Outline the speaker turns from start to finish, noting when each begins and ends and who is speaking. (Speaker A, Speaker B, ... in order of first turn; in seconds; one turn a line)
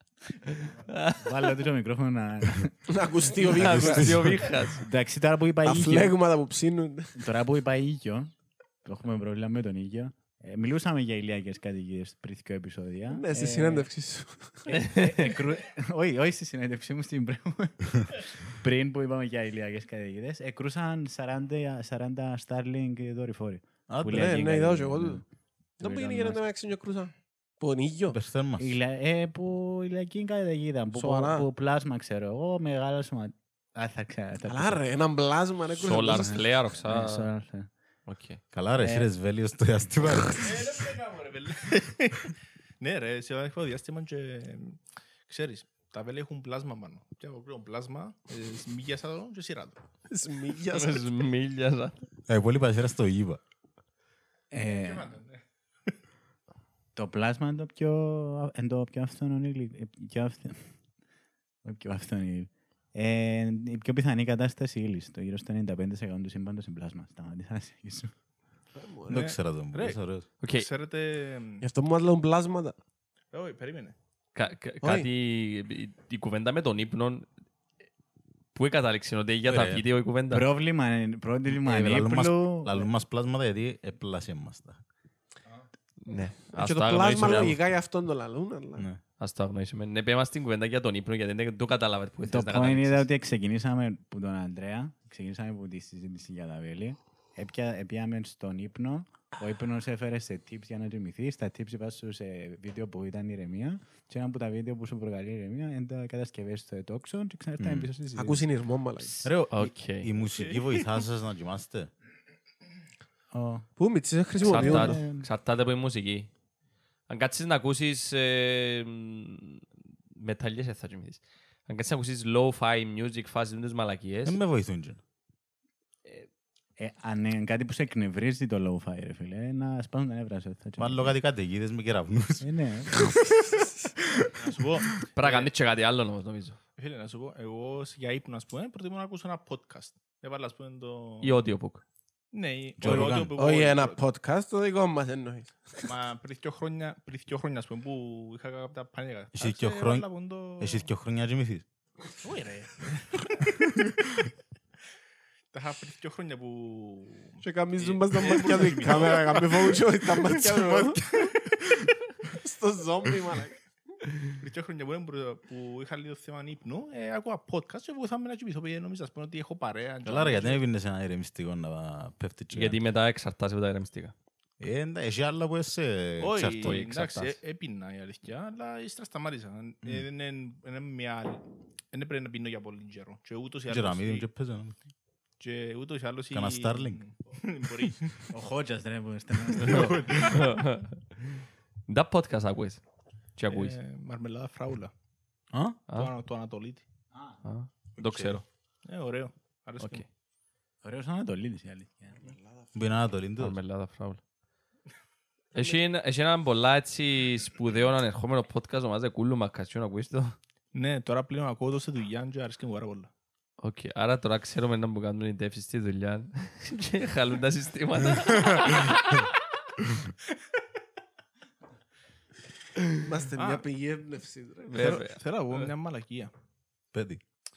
Speaker A: 0.5-1.3
Speaker B: 1.2-2.9
Speaker C: 2.9-4.4
Speaker A: 3.4-4.8
Speaker D: 3.5-4.5
Speaker B: 4.7-6.2
Speaker C: 5.6-7.3
Speaker B: 7.2-13.9
Speaker C: 13.1-14.8
Speaker B: 14.7-25.2
Speaker A: 14.8-15.3
Speaker D: 23.9-24.4
Speaker C: 24.1-25.2
Speaker C: 25.8-28.2
Speaker B: 25.8-26.4
Speaker D: 28.1-28.8
Speaker B: 28.6-34.8
Speaker C: 30.9-31.5
Speaker C: 34.5-36.4
Speaker A: 35.8-37.3
Speaker B: 36.0-37.7
Speaker A: 38.1-38.4
Speaker D: 38.5-40.6
Speaker B: 38.8-39.1
Speaker E: 40.4-49.8
Speaker C: 50.1-51.1
Speaker A: 50.7-52.0
Speaker D: 52.3-53.4
Speaker B: 54.5-55.1
Speaker E: 54.6-56.0
Speaker B: 57.0-60.8
Speaker B: 61.6-68.1
Speaker C: 68.7-69.3
Speaker D: 69.1-70.2
Speaker E: 69.1-71.7
Speaker A: 70.4-70.7
Speaker C: 71.6-72.8
Speaker E: 73.3-74.0
Speaker A: 74.3-77.3
Speaker C: 74.8-75.1
Speaker A: 78.5-80.5
Speaker D: 79.5-79.8
Speaker B: 80.3-82.9
Speaker D: 81.5-84.8
Speaker A: 86.0-87.5
Speaker C: 86.5-88.9
Speaker D: 87.1-87.7
Speaker A: 89.2-93.1
Speaker B: 92.2-108.5
Speaker D: 107.6-107.9
Speaker C: 108.2-109.2
Speaker D: 109.2-111.9
Speaker A: 109.5-110.1
Speaker B: 113.3-113.7
Speaker C: 113.8-115.0
Speaker B: 114.4-115.3
Speaker A: 114.5-116.3
Speaker A: 117.1-119.6
Speaker A: 120.2-124.4
Speaker D: 124.2-125.0
Speaker B: 126.8-131.2
Speaker D: 130.8-133.5
Speaker B: 132.4-133.2
Speaker E: 134.4-135.5
Speaker A: 135.2-136.6
Speaker E: 136.8-141.4
Speaker A: 141.2-141.8
Speaker E: 142.3-144.0
Speaker D: 142.8-143.3
Speaker C: 142.9-145.9
Speaker E: 145.8-150.9
Speaker D: 149.4-150.1
Speaker D: 150.6-151.7
Speaker E: 152.2-153.5
Speaker D: 153.6-154.3
Speaker E: 155.5-161.4
Speaker C: 157.4-161.3
Speaker C: 162.3-163.7
Speaker E: 164.3-170.6
Speaker D: 170.1-172.8
Speaker A: 172.5-174.1
Speaker D: 174.6-176.8
Speaker E: 176.2-184.3
Speaker A: 176.6-177.4
Speaker D: 183.7-184.8
Speaker E: 185.4-188.3
Speaker D: 186.3-187.0
Speaker B: 188.3-190.2
Speaker A: 189.6-191.0
Speaker E: 189.7-190.2
Speaker A: 191.9-192.8
Speaker A: 193.4-193.8
Speaker E: 193.5-194.9
Speaker D: 195.5-195.8
Speaker E: 195.9-196.8
Speaker A: 197.4-198.4
Speaker D: 198.0-198.4
Speaker E: 198.1-200.0
Speaker A: 199.8-200.1
Speaker B: 200.8-202.2
Speaker C: 202.2-202.7
Speaker D: 202.7-203.6
Speaker A: 203.4-204.2
Speaker A: 205.5-210.4
Speaker E: 210.7-213.1
Speaker A: 213.6-219.4
Speaker C: 222.9-225.0
Speaker E: 223.3-223.7
Speaker A: 224.7-225.7
Speaker E: 224.8-226.3
Speaker D: 226.9-227.2